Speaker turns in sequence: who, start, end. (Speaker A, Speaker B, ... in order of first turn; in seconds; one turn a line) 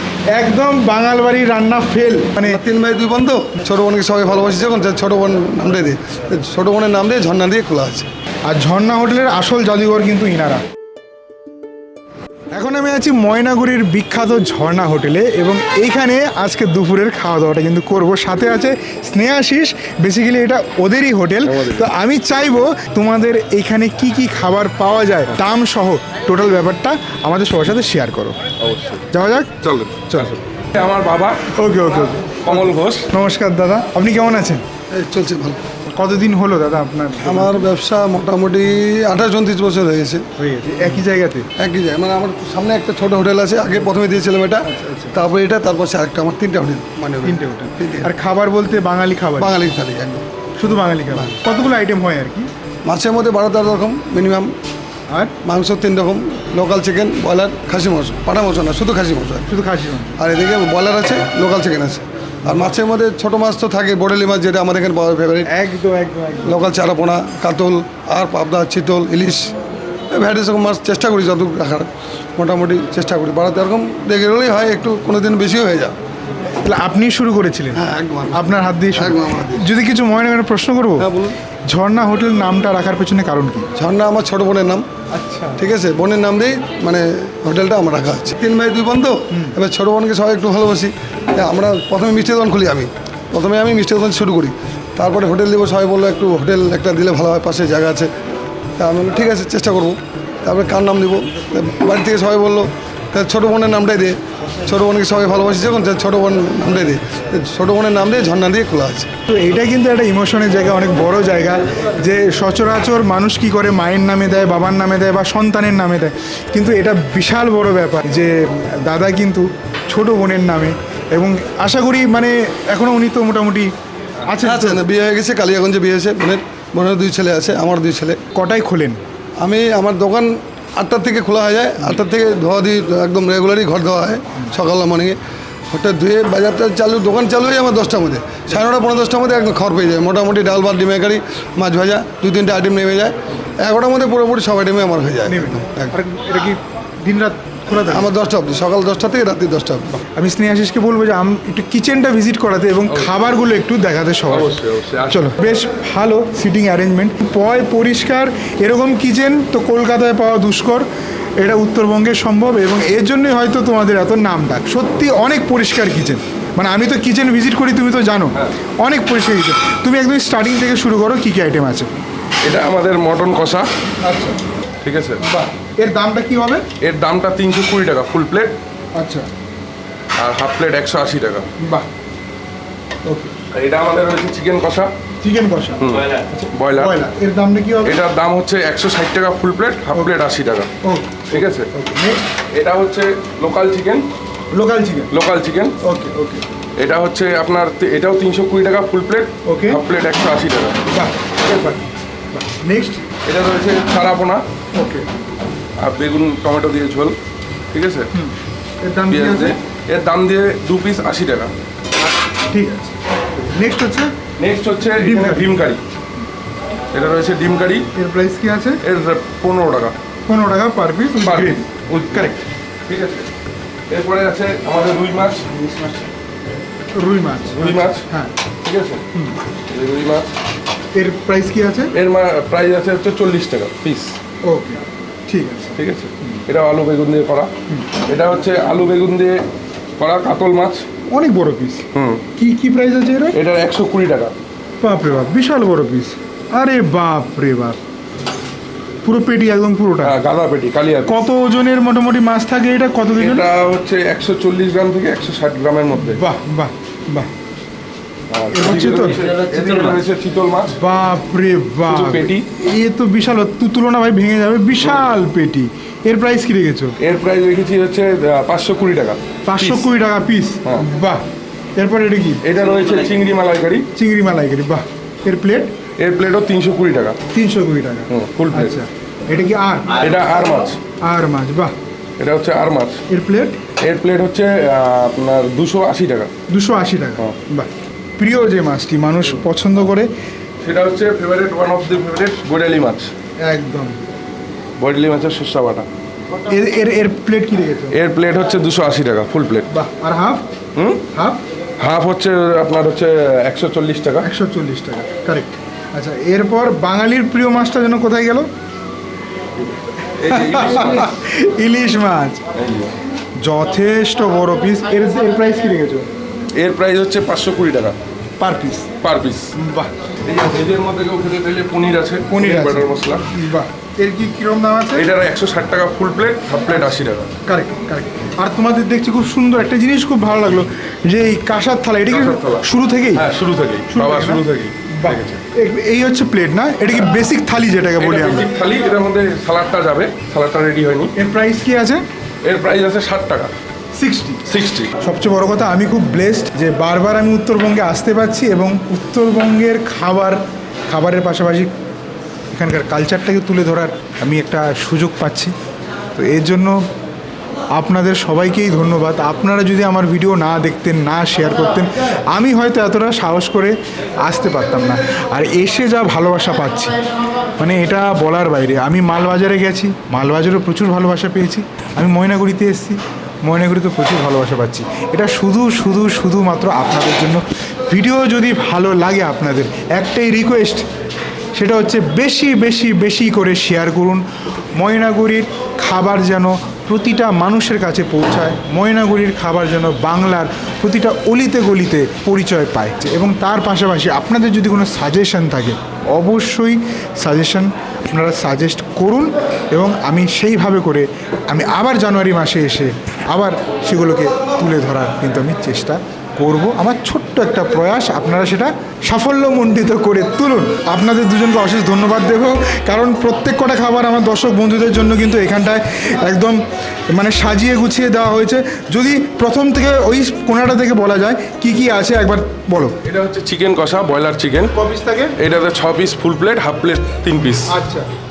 Speaker A: 0.3-2.6
Speaker B: 2.4-8.1
Speaker A: 8.5-10.6
Speaker A: 12.5-28.4
Speaker C: 21.4-21.9
Speaker C: 28.6-29.0
Speaker A: 29.1-29.5
Speaker C: 29.6-31.4
Speaker A: 31.5-32.3
Speaker C: 32.4-33.1
Speaker A: 33.1-34.6
Speaker B: 34.9-35.6
Speaker A: 35.9-37.7
Speaker B: 37.2-40.2
Speaker A: 40.4-41.5
Speaker B: 41.6-48.1
Speaker A: 44.6-45.2
Speaker A: 47.2-49.5
Speaker B: 49.4-50.2
Speaker A: 50.6-52.5
Speaker B: 51.1-51.4
Speaker B: 52.8-54.5
Speaker A: 55.1-55.3
Speaker B: 55.4-59.5
Speaker A: 59.5-60.2
Speaker B: 60.2-65.5
Speaker A: 65.5-66.6
Speaker B: 66.5-69.5
Speaker B: 70.1-75.9
Speaker A: 76.6-81.1
Speaker B: 77.8-79.6
Speaker B: 81.0-81.3
Speaker A: 81.7-83.7
Speaker B: 83.8-84.8
Speaker A: 85.1-85.7
Speaker B: 85.6-98.1
Speaker A: 89.3-89.5
Speaker B: 98.8-109.1
Speaker A: 109.3-123.7
Speaker A: 124.2-124.8
Speaker B: 124.4-128.2
Speaker A: 128.3-129.0
Speaker B: 129.4-135.2
Speaker B: 135.7-145.9
Speaker A: 145.2-148.1
Speaker B: 147.8-149.9
Speaker A: 149.9-160.9
Speaker C: 152.9-153.2
Speaker C: 154.3-155.4
Speaker A: 161.4-171.9
Speaker C: 172.4-173.7
Speaker A: 174.0-174.4
Speaker C: 174.8-175.2
Speaker A: 175.2-176.6
Speaker C: 176.8-178.5
Speaker A: 178.9-179.3
Speaker C: 180.2-181.5
Speaker A: 181.6-181.8
Speaker A: 183.0-183.3
Speaker C: 183.5-184.9
Speaker A: 185.2-188.0
Speaker C: 185.8-187.0
Speaker C: 187.8-190.7
Speaker A: 190.8-192.2
Speaker C: 191.3-191.7
Speaker C: 192.5-194.1
Speaker A: 194.5-195.1
Speaker C: 195.1-195.8
Speaker A: 195.8-196.4
Speaker C: 196.8-200.8
Speaker A: 199.4-199.8
Speaker A: 200.9-203.1
Speaker C: 203.2-204.4
Speaker A: 204.7-205.1
Speaker C: 205.8-207.2
Speaker C: 207.7-208.1
Speaker A: 208.1-209.5
Speaker C: 209.1-211.5
Speaker A: 212.5-214.1
Speaker C: 214.4-215.8
Speaker A: 215.0-215.6
Speaker C: 216.9-217.9
Speaker A: 217.9-218.8
Speaker C: 218.8-219.9
Speaker A: 220.3-222.4
Speaker C: 221.2-222.3
Speaker C: 222.8-223.3
Speaker C: 223.9-225.5
Speaker A: 226.9-228.3
Speaker C: 227.5-228.0
Speaker C: 228.6-229.0
Speaker C: 229.7-230.3
Speaker A: 230.9-231.9
Speaker C: 231.9-234.2
Speaker A: 234.4-236.4
Speaker C: 235.8-237.5
Speaker C: 238.1-239.4
Speaker C: 240.0-240.8
Speaker A: 241.1-241.8
Speaker C: 241.9-242.2
Speaker A: 242.3-243.4
Speaker C: 243.3-244.3
Speaker A: 244.8-247.8
Speaker A: 249.0-250.1
Speaker C: 250.0-251.2
Speaker A: 251.1-253.5
Speaker C: 253.2-256.2
Speaker A: 256.0-257.3
Speaker C: 258.3-260.8
Speaker A: 258.5-259.2
Speaker A: 260.7-266.9
Speaker C: 261.8-262.4
Speaker C: 267.0-269.9
Speaker A: 269.4-271.2
Speaker A: 271.8-272.4
Speaker C: 272.4-273.9
Speaker A: 273.9-275.7
Speaker C: 276.0-277.2
Speaker A: 277.3-280.1
Speaker C: 278.1-278.8
Speaker C: 279.9-280.8
Speaker A: 281.0-281.7
Speaker C: 282.2-283.0
Speaker A: 283.1-283.6
Speaker C: 283.8-286.3
Speaker A: 286.5-290.1
Speaker C: 290.6-293.1
Speaker A: 293.4-294.0
Speaker C: 294.8-295.9
Speaker A: 296.4-298.0
Speaker C: 297.9-299.7
Speaker A: 299.7-300.4
Speaker C: 300.8-301.0
Speaker A: 301.1-301.4
Speaker C: 301.8-304.3
Speaker A: 304.2-308.5
Speaker C: 309.6-311.1
Speaker A: 310.2-312.4
Speaker C: 312.5-312.9
Speaker A: 313.4-316.1
Speaker C: 316.5-317.9
Speaker A: 318.4-318.9
Speaker C: 319.0-319.5
Speaker A: 319.6-319.9
Speaker C: 320.2-323.2
Speaker A: 322.3-325.1
Speaker C: 324.9-327.3
Speaker A: 327.4-333.2
Speaker C: 332.1-335.4
Speaker A: 333.9-338.5
Speaker C: 338.0-341.1
Speaker A: 341.2-342.0
Speaker C: 342.4-343.5
Speaker A: 343.9-344.4
Speaker C: 344.4-344.9
Speaker A: 345.0-351.7
Speaker A: 352.5-355.5
Speaker A: 356.1-356.8
Speaker A: 357.7-366.9
Speaker A: 367.6-380.9
Speaker A: 381.5-384.2
Speaker A: 384.8-422.9
Speaker C: 423.0-424.7
Speaker A: 424.7-425.4
Speaker C: 425.4-427.7
Speaker A: 427.7-428.1